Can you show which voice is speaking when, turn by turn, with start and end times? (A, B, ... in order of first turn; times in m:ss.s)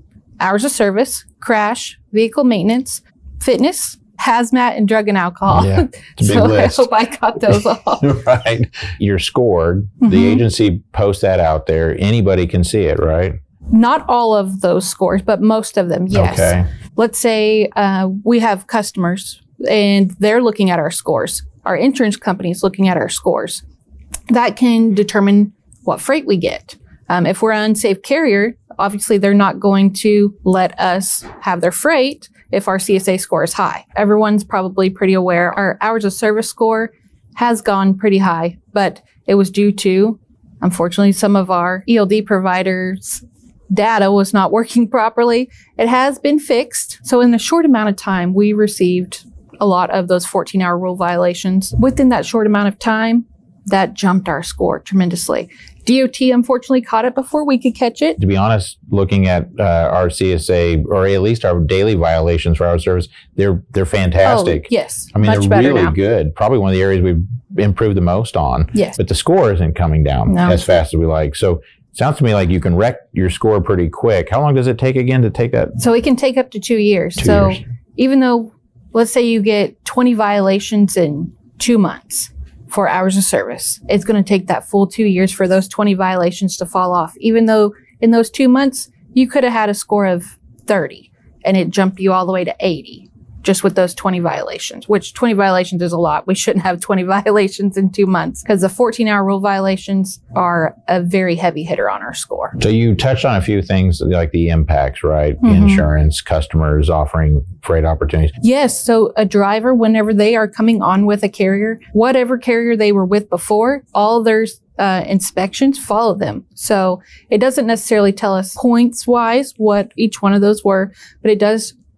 0:00.4-0:08.1 A
0:05.5-0:06.9 B
0:07.5-0:13.4 B
0:10.0-0:10.4 A
0:13.7-0:23.6 A
0:16.1-0:16.7 B
0:24.3-0:58.2 A
0:58.2-1:15.8 B
1:04.2-1:06.0 A
1:08.7-1:09.0 A
1:10.3-1:10.6 A
1:15.8-1:42.6 A
1:17.2-1:17.6 B
1:42.6-1:48.3 B
1:45.4-1:45.9 A
1:48.4-2:01.7 A